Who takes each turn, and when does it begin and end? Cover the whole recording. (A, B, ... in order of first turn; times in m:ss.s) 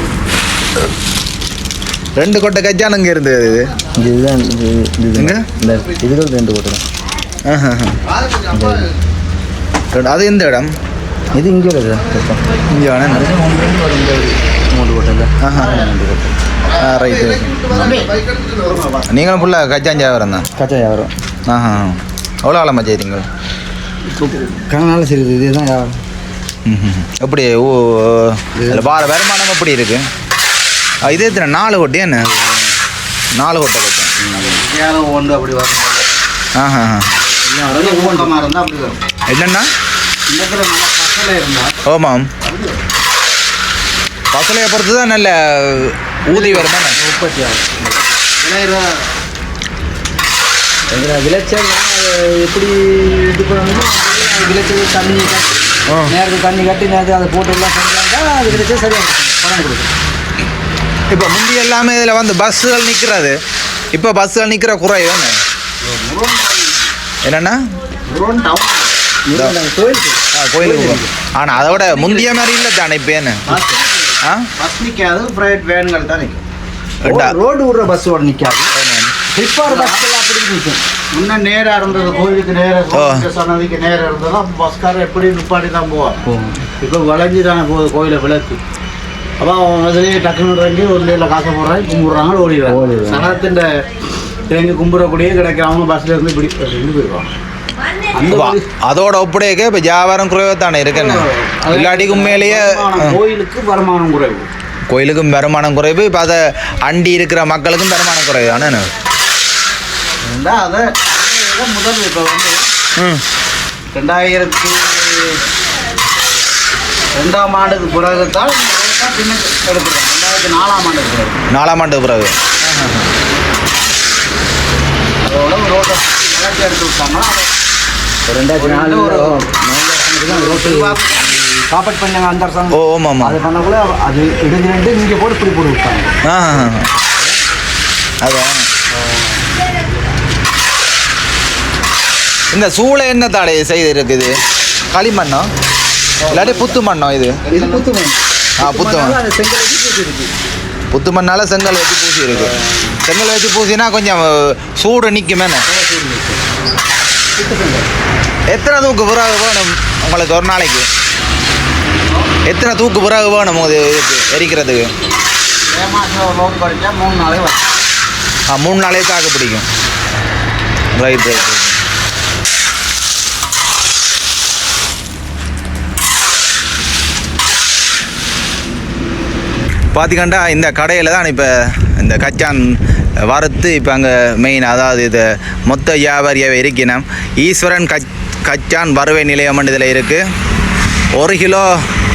0:02.2-0:03.7 A
0:04.0-0:06.8 B
0:05.2-0:05.4 A
0:07.4-0:08.0 A
0:08.5-0:08.9 B
0:09.9-0:10.7 A
0:11.3-0:12.4 B
0:12.7-0:13.3 A
0:13.0-0:16.4 B
0:15.4-0:15.9 A
0:16.7-0:17.9 A
0:17.7-0:19.0 C
0:17.7-0:18.1 B
0:19.1-0:20.5 A
0:20.6-0:21.1 B
0:21.5-0:23.3 A
0:24.1-0:26.0 B
0:26.7-0:30.0 A
0:28.6-0:29.0 B
0:31.0-0:32.3 A
0:32.2-0:32.7 B
0:33.4-0:34.1 A
0:34.2-0:34.7 B
0:34.3-0:36.1 C
0:36.6-0:37.2 A
0:37.4-0:38.3 B
0:37.6-0:39.0 C
0:39.3-0:39.7 A
0:40.3-0:41.8 C
0:41.8-0:42.3 A
0:42.4-0:42.8 C
0:44.3-0:47.0 A
0:46.3-0:48.2 B
0:48.3-0:49.1 C
0:50.9-0:59.9 B
0:55.9-0:56.1 A
1:01.1-1:03.4 A
1:03.9-1:05.4 A
1:05.8-1:07.0 C
1:07.2-1:07.6 A
1:08.1-1:08.9 C
1:09.3-1:11.1 B
1:10.3-1:13.4 A
1:11.6-1:12.1 C
1:13.5-1:16.4 C
1:14.2-1:14.5 A
1:17.0-1:17.4 A
1:17.0-1:18.7 B
1:18.7-1:19.1 A
1:19.3-1:20.8 B
1:19.7-1:20.0 C
1:21.1-1:26.3 C
1:22.9-1:23.3 A
1:26.2-1:26.6 B
1:26.8-1:28.6 C
1:29.4-1:33.8 C
1:32.7-1:33.4 B
1:34.5-1:37.3 C
1:38.2-1:38.6 C
1:38.2-1:43.2 A
1:40.9-1:44.5 C
1:44.9-1:48.9 A
1:50.2-1:52.6 C
1:53.0-1:53.2 A
1:53.9-1:55.4 C
1:57.2-2:01.4 C
2:01.5-2:03.1 A
2:05.2-2:07.5 C
2:08.3-2:17.4 B
2:08.6-2:09.6 C
2:10.2-2:11.3 C
2:12.7-2:13.4 A
2:16.2-2:16.9 A
2:18.2-2:18.6 A
2:19.0-2:19.4 B
2:22.5-2:24.4 A
2:24.9-2:25.5 A
2:26.3-2:27.6 A
2:27.5-2:30.3 B
2:28.6-2:29.2 A
2:30.9-2:35.7 A
2:35.7-2:36.4 B
2:37.4-2:37.9 B
2:38.5-2:40.9 A
2:42.5-2:44.9 A
2:45.7-2:47.8 C
2:48.5-2:49.7 A
2:51.0-2:51.8 A
2:59.9-3:10.2 A
3:11.2-3:11.8 A